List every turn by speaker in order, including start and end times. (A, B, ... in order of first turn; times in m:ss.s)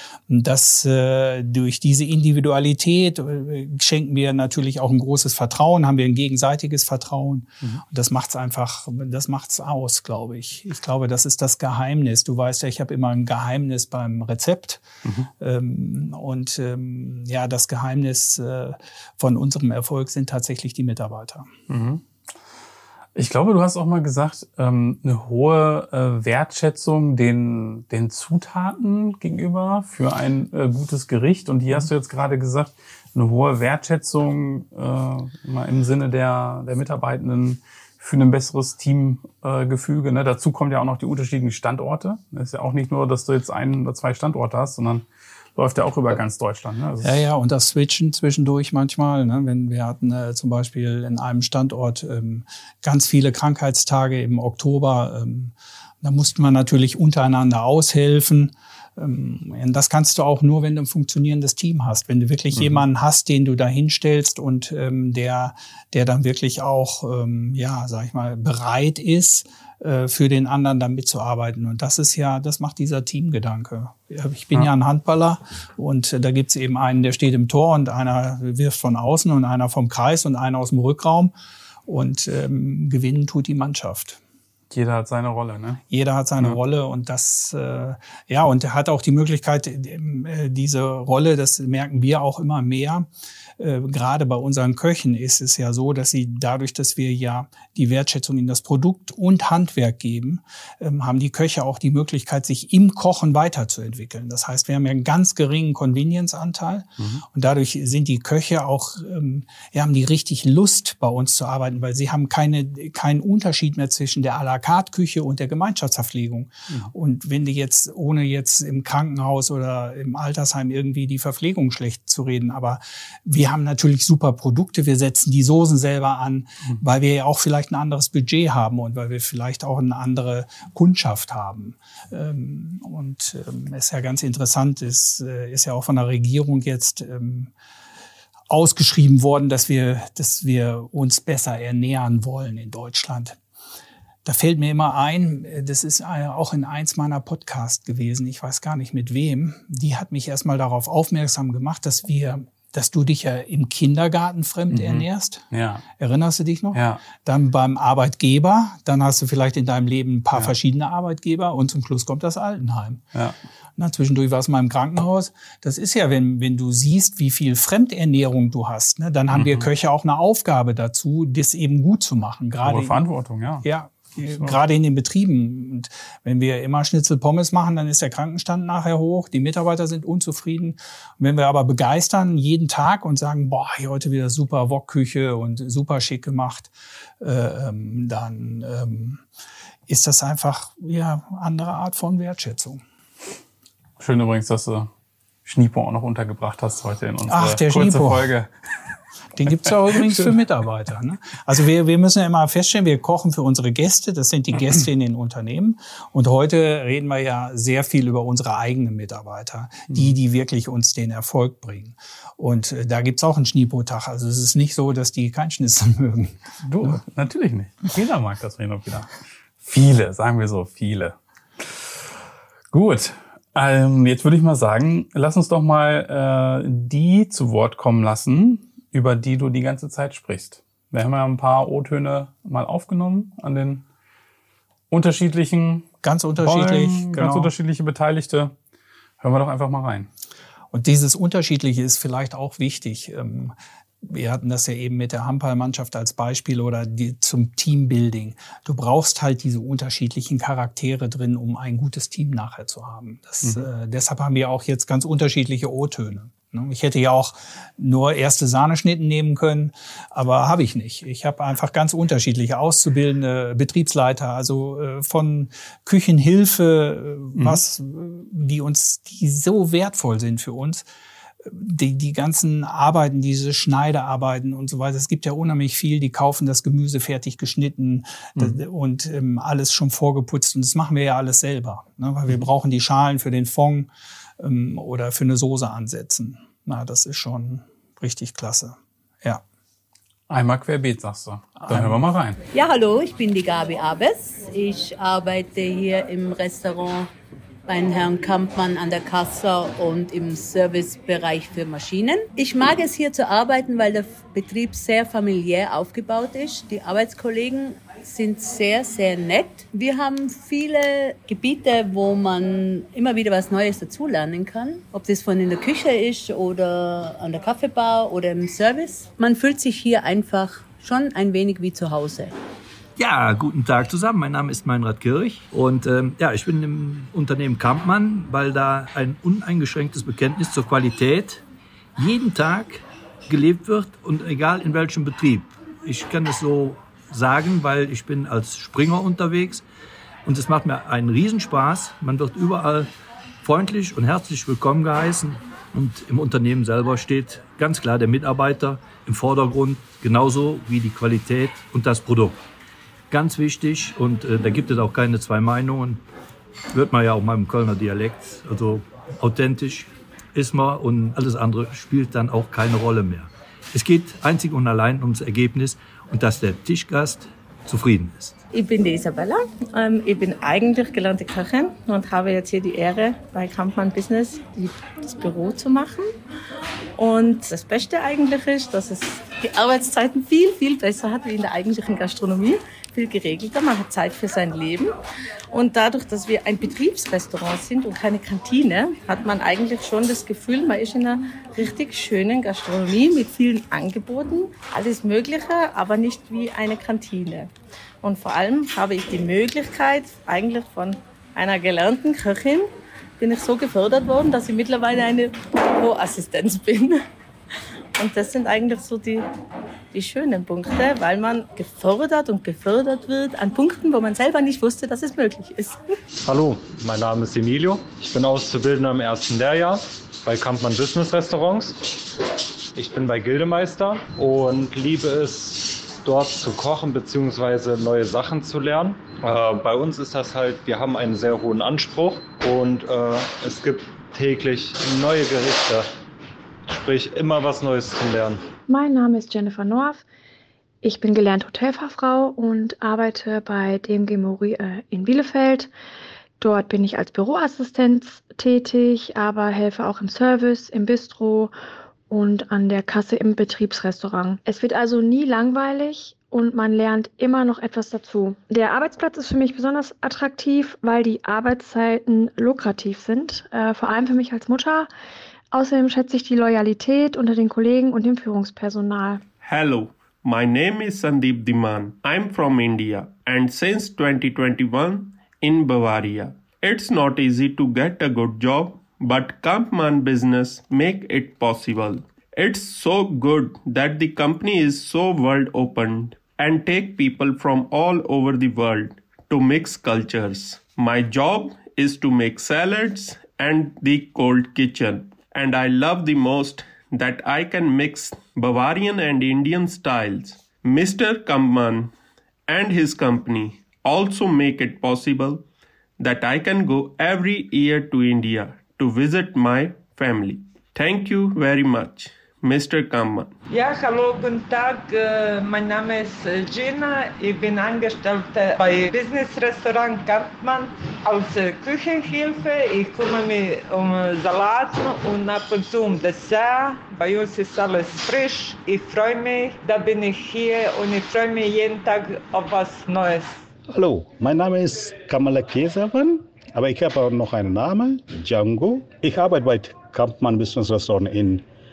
0:00.3-0:14.8 A
0:15.0-0:15.3 B
0:15.4-0:21.5 A
0:21.7-0:22.0 B
0:23.2-0:47.2 B
0:47.0-1:21.3 A
1:02.6-1:02.8 B
1:21.9-1:24.2 A
1:24.7-1:25.8 B
1:25.9-1:33.1 A
1:33.6-2:17.5 A
1:47.0-1:47.2 B
2:18.5-2:23.4 A
2:24.2-2:35.4 A
2:34.7-2:35.8 B
2:36.0-2:43.0 A
2:36.7-2:37.0 B
2:43.8-2:53.0 A
2:49.3-2:49.7 B
2:52.6-2:53.7 B
2:53.6-3:09.2 A
2:54.2-2:54.6 B
3:09.9-3:12.8 A
3:14.0-3:14.9 B
3:15.4-3:18.5 B
3:17.3-3:18.3 A
3:19.4-3:37.0 A
3:19.9-3:20.3 B
3:29.9-3:30.2 B
3:36.6-3:42.1 B
3:42.7-3:53.8 B
3:54.9-3:58.6 B
3:56.0-3:57.5 A
3:59.2-4:00.1 B
4:00.7-4:30.9 A
4:27.4-4:27.6 B
4:31.4-4:49.4 A
4:50.3-4:52.4 B
4:51.6-4:52.0 A
4:52.5-4:57.1 C
4:57.7-5:22.3 C
5:23.0-5:31.4 D
5:32.0-5:39.6 D
5:40.2-5:42.9 D
5:43.4-5:52.4 D
5:53.1-5:56.0 D
5:56.7-6:08.4 D
6:08.5-6:16.1 E
6:17.0-6:24.9 E
6:25.5-6:37.5 E
6:38.0-6:42.7 E
6:43.2-6:47.0 E
6:48.0-6:49.3 E
6:49.9-6:55.8 E
6:56.2-7:01.9 F
7:02.8-7:15.9 F
7:16.7-7:18.4 F
7:18.7-7:20.0 G
7:20.8-7:25.7 G
7:26.4-7:31.5 G
7:32.1-7:44.9 G
7:45.5-7:49.2 G
7:49.4-8:21.9 H
8:22.5-8:25.4 H
8:26.0-8:33.3 H
8:33.5-8:53.4 I
8:53.7-9:01.4 J